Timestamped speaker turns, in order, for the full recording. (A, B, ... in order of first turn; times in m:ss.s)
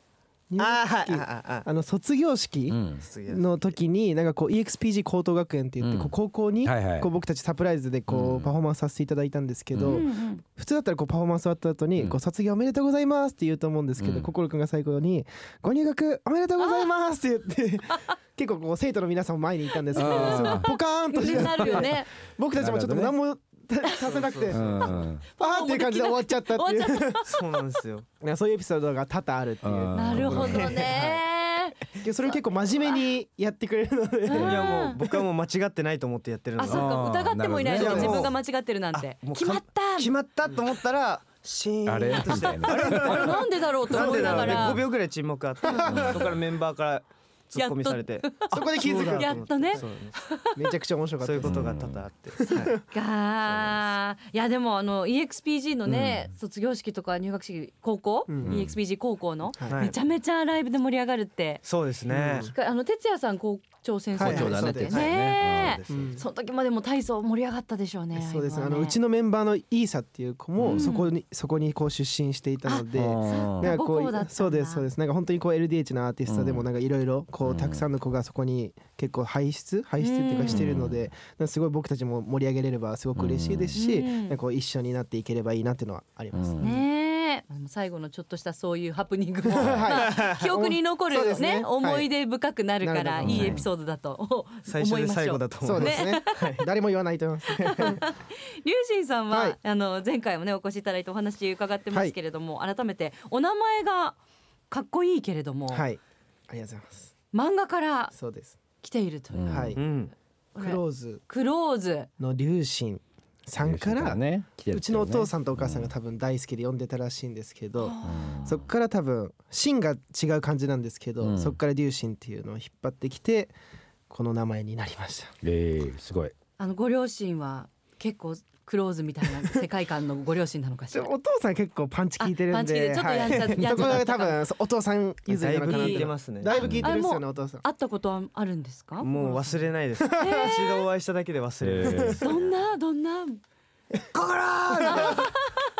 0:00.5-0:27.3 A
0:00.6-0:01.6 B
0:02.7-0:03.0 C
0:03.0-0:03.7 B
0:05.8-0:06.1 C
0:06.6-0:07.1 C
0:08.1-0:08.5 C
0:09.7-0:10.0 C
0:09.8-0:10.4 D
0:14.0-0:14.3 C
0:16.6-0:16.9 D
0:19.9-0:22.1 D
0:20.0-0:20.7 C
0:21.2-0:21.8 C
0:22.6-0:23.1 C
0:24.0-0:25.0 B
0:24.5-0:25.2 C
0:25.3-0:27.4 D
0:27.3-0:28.1 B
0:28.2-0:31.2 A
0:29.6-0:30.8 C
0:29.9-0:31.8 D
0:30.4-0:30.7 B
0:32.0-0:34.8 A
0:32.0-0:32.4 B
0:34.2-0:35.0 D
0:34.3-0:37.0 B
0:36.6-0:40.1 D
0:36.7-0:38.3 C
0:37.7-0:38.3 B
0:37.8-0:38.2 A
0:38.9-0:50.2 B
0:41.8-0:43.4 C
0:42.2-0:44.8 D
0:44.0-0:44.2 A
0:44.0-0:44.8 C
0:45.6-0:46.3 A
0:45.6-0:46.3 D
0:45.9-0:46.2 C
0:47.5-0:50.6 D
0:48.5-0:49.8 A
0:50.5-0:51.7 A
0:51.2-0:52.8 B
0:51.4-0:52.0 C
0:52.4-0:52.8 A
0:52.9-1:01.6 D
0:53.4-0:53.9 B
0:58.3-0:58.6 A
0:58.4-0:58.7 C
0:59.6-0:59.9 A
0:59.7-1:00.0 B
1:01.6-1:02.5 B
1:02.1-1:02.5 A
1:02.4-1:09.0 D
1:04.2-1:05.0 A
1:04.2-1:05.8 C
1:04.2-1:06.2 B
1:05.9-1:06.2 A
1:08.1-1:26.8 A
1:10.6-1:10.8 B
1:10.7-1:11.1 D
1:12.6-1:14.8 D
1:12.9-1:13.7 C
1:16.3-1:16.6 C
1:17.4-1:17.8 C
1:20.0-1:20.8 D
1:20.4-1:21.0 C
1:23.2-1:23.7 C
1:23.7-1:24.4 D
1:26.3-1:26.6 C
1:26.6-1:36.4 D
1:29.5-1:32.1 A
1:30.0-1:30.4 B
1:32.8-1:33.6 A
1:33.2-1:33.6 C
1:34.7-1:36.7 B
1:35.6-1:38.0 A
1:37.5-1:44.2 D
1:39.3-1:39.6 A
1:44.7-1:45.8 D
1:45.7-1:47.1 A
1:47.3-1:48.1 D
1:48.1-1:48.6 A
1:48.8-1:49.8 D
1:49.3-1:49.8 C
1:49.4-1:49.8 A
1:49.8-1:50.1 B
1:50.5-1:52.1 D
1:50.6-1:51.2 A
1:52.2-2:03.5 A
1:53.6-1:55.9 C
1:57.8-1:58.6 D
1:58.0-1:58.6 C
2:01.2-2:01.6 C
2:04.1-2:05.3 A
2:05.4-2:06.3 C
2:06.6-2:11.1 D
2:10.9-2:17.6 A
2:12.2-2:14.4 D
2:15.3-2:16.6 B
2:15.7-2:20.8 D
2:16.6-2:16.9 C
2:19.0-2:22.6 B
2:20.1-2:20.5 A
2:21.6-2:22.2 C
2:21.8-2:22.1 A
2:22.2-2:23.4 D
2:24.0-2:25.3 B
2:24.8-2:25.7 D
2:24.8-2:25.2 A